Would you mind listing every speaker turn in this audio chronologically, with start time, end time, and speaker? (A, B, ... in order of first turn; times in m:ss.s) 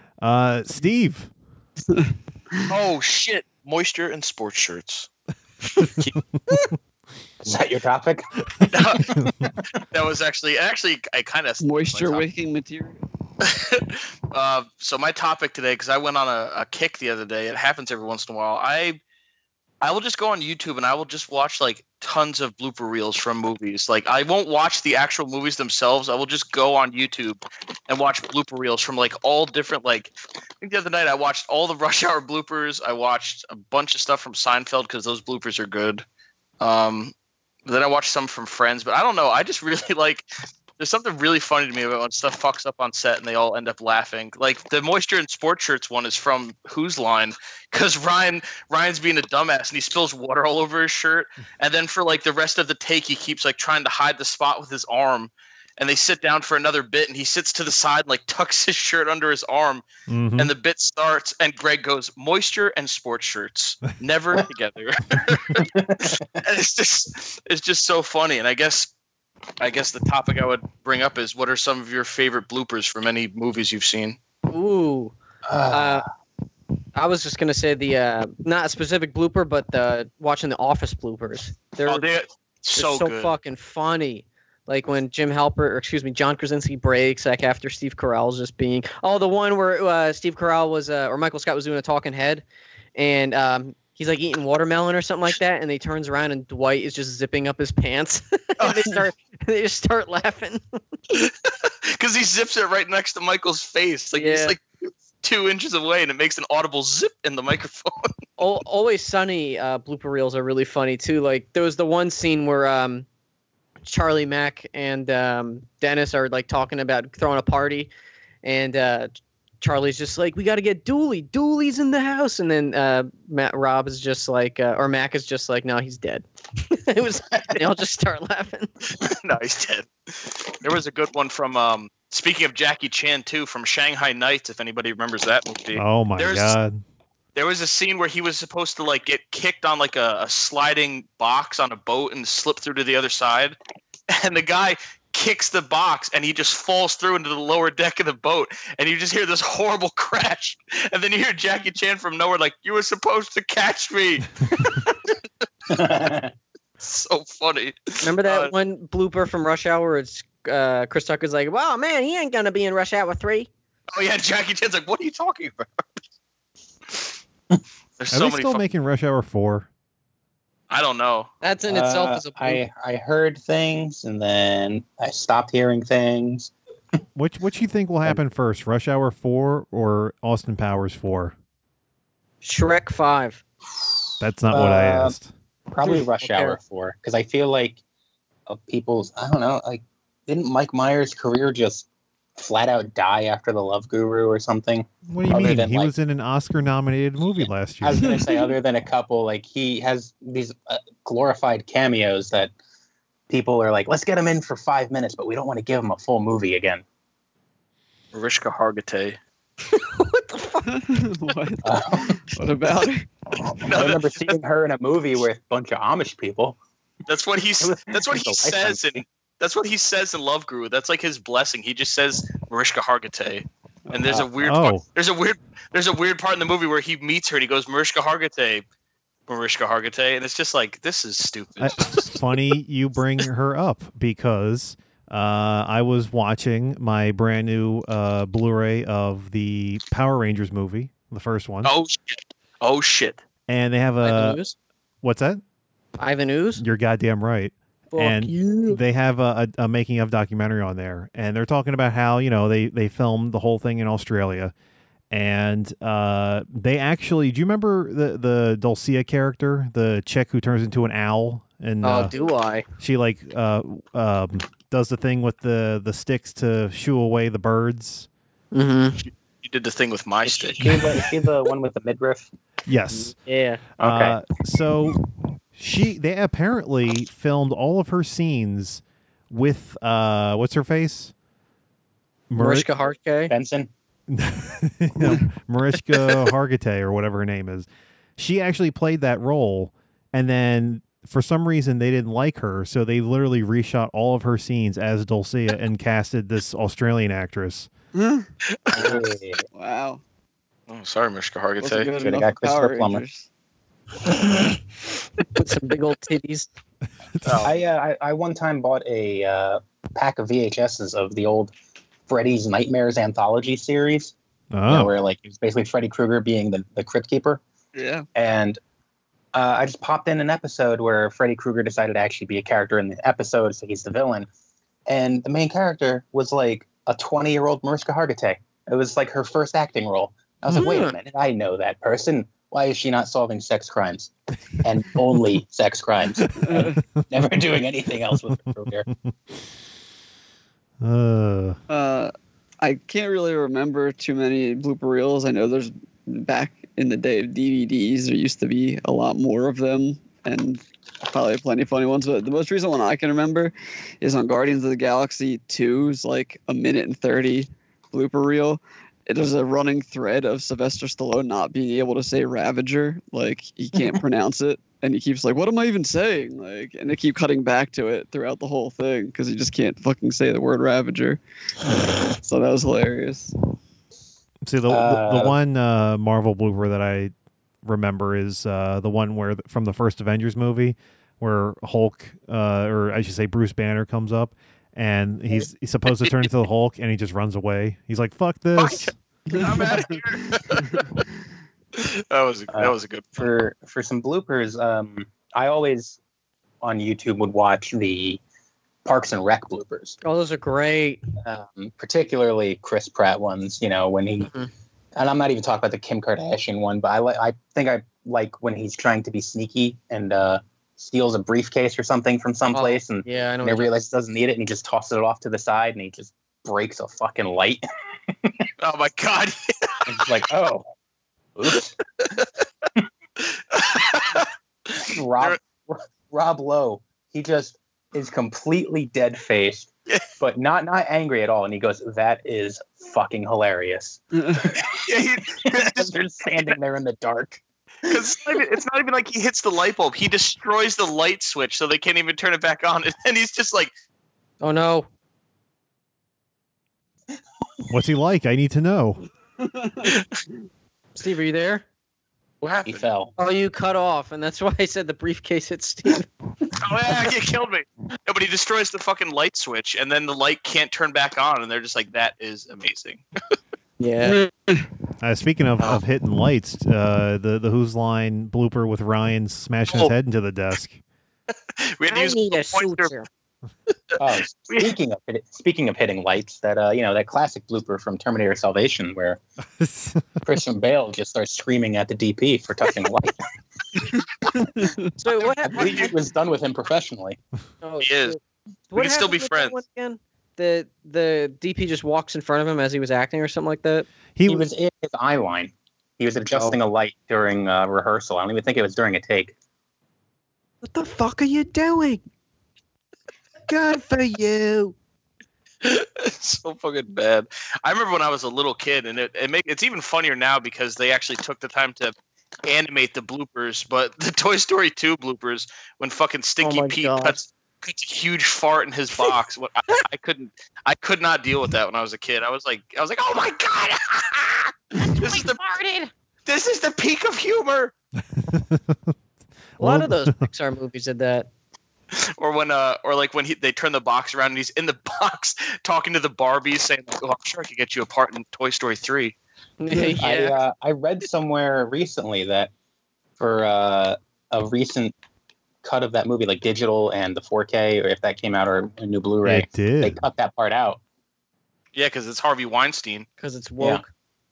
0:00.2-0:01.3 A
0:01.9-0:02.7 B
0:02.7-0:05.1 C
0:07.4-0:09.5 D
0:08.7-0:09.2 C
0:09.9-0:12.2 C
0:11.6-0:13.0 B
0:13.4-0:19.0 C
0:19.8-0:36.0 C
0:36.6-0:37.1 C
0:37.6-0:40.2 C
0:40.8-0:59.8 C
1:00.1-1:00.5 A
1:00.4-1:08.9 C
1:05.5-1:06.2 D
1:09.6-1:14.2 C
1:14.5-1:15.1 E
1:15.5-1:16.0 D
1:15.7-1:16.0 E
1:17.0-1:22.1 E
1:21.9-1:23.3 C
1:22.7-1:32.4 E
1:33.0-1:40.6 E
1:38.6-1:38.9 C
1:41.1-1:44.6 C
1:44.1-1:44.6 E
1:45.2-1:48.1 C
1:48.4-1:53.0 E
1:53.8-1:57.9 E
1:58.4-2:08.7 E
2:08.9-2:16.5 C
2:15.7-2:16.8 A
2:17.4-2:23.6 C
2:24.1-2:35.2 C
2:35.7-2:36.3 D
2:36.8-2:38.5 C
2:38.0-2:43.5 E
2:43.9-2:45.8 C
2:48.0-2:48.7 C
2:48.1-2:49.7 A
2:50.7-2:51.3 C
2:51.4-2:52.6 E
2:51.7-2:56.5 D
2:57.1-3:01.4 A
3:02.4-3:03.4 E
3:04.0-3:05.1 D
3:04.2-3:05.3 A
3:05.7-3:07.8 D
3:05.8-3:06.6 E
3:08.5-3:11.9 D
3:12.4-3:15.9 D
3:15.1-3:18.2 A
3:17.4-3:22.5 D
3:23.3-3:26.8 D
3:28.1-3:29.2 C
3:29.6-3:30.8 E
3:30.7-3:33.1 B
3:31.6-3:32.2 D
3:33.6-3:34.4 C
3:33.6-3:36.6 D
3:37.1-3:48.6 C
3:37.6-3:39.0 D
3:44.4-3:44.8 A
3:49.3-3:52.2 C
3:51.6-4:01.7 A
4:01.6-4:03.2 C
4:03.5-4:04.4 A
4:04.0-4:04.5 E
4:05.0-4:05.4 A
4:06.0-4:06.6 E
4:06.6-4:14.5 A
4:07.9-4:08.8 E
4:15.1-4:22.1 A
4:21.8-4:22.6 E
4:22.8-4:28.1 A
4:28.5-4:29.0 E
4:29.0-4:30.6 C
4:30.2-4:32.3 D
4:32.6-4:33.1 A
4:32.9-4:33.6 E
4:33.8-4:34.2 D
4:33.8-4:35.0 A
4:35.6-4:41.1 A
4:42.3-4:42.6 A
4:42.4-4:43.3 E
4:43.3-4:43.7 D
4:44.1-4:57.7 A
4:57.9-4:58.2 B
4:58.7-4:59.0 C
4:58.7-4:59.4 D
4:59.5-5:00.0 B
5:00.7-5:01.9 C
5:01.6-5:03.3 B
5:02.0-5:03.0 D
5:05.3-5:06.5 E
5:07.2-5:07.5 C
5:07.4-5:11.5 D
5:12.1-5:14.1 D
5:14.5-5:14.9 A
5:14.7-5:17.4 D
5:17.8-5:18.0 B
5:18.1-5:18.6 D
5:19.3-5:24.3 D
5:24.9-5:38.9 D
5:30.5-5:31.0 E
5:36.4-5:36.8 B
5:40.8-5:41.6 A
5:41.7-6:11.2 B
6:12.0-6:13.3 B
6:14.4-6:17.1 A
6:14.7-6:15.4 D
6:17.6-6:28.9 A
6:28.6-6:31.0 C
6:29.3-6:30.4 B
6:31.7-6:33.3 C
6:32.5-6:36.0 D
6:36.6-6:38.2 D
6:38.8-6:40.0 D
6:40.0-6:41.0 E
6:41.2-6:44.3 D
6:44.2-6:44.5 E
6:44.9-6:57.6 D
6:52.5-6:53.7 E
6:58.6-7:00.1 C
6:59.9-7:00.6 D
7:01.4-7:01.8 D
7:03.5-7:05.4 C
7:04.8-7:09.7 D
7:10.2-7:14.7 D
7:14.1-7:14.5 B
7:14.7-7:16.6 C
7:15.4-7:18.4 D
7:17.8-7:23.7 C
7:24.4-7:24.9 E
7:27.7-7:29.0 A
7:29.4-7:29.9 B
7:31.0-7:31.6 E
7:32.4-7:32.9 C
7:32.6-7:33.1 D
7:33.2-7:36.1 E
7:36.6-7:43.0 C
7:43.8-7:44.2 E
7:44.0-7:44.6 B
7:45.0-7:50.8 A
7:51.6-7:52.9 C
7:51.9-7:53.1 E
7:53.9-7:54.7 C
7:54.0-7:59.2 D
7:59.6-8:00.0 A
8:00.2-8:03.1 D
8:04.3-8:04.9 B
8:05.0-8:05.9 E
8:05.2-8:05.9 C
8:05.4-8:07.2 D
8:07.6-8:08.2 E
8:07.8-8:08.2 C
8:08.7-8:13.9 E
8:08.7-8:09.6 C
8:14.1-8:14.5 A
8:14.3-8:19.3 D
8:16.3-8:16.6 E
8:20.6-8:22.0 E
8:23.5-8:24.7 E
8:25.6-8:31.9 C
8:32.4-8:45.4 C
8:36.4-8:37.2 E
8:44.8-8:45.9 E
8:46.2-8:47.7 C
8:48.2-8:48.9 A
8:49.6-8:50.2 A
8:49.6-8:51.3 E
8:51.9-8:59.2 C
8:59.6-9:00.4 E
9:00.0-9:02.5 D
9:03.2-9:04.9 D
9:05.6-9:10.8 D
9:09.2-9:10.0 A
9:11.7-9:13.0 C
9:13.2-9:13.9 E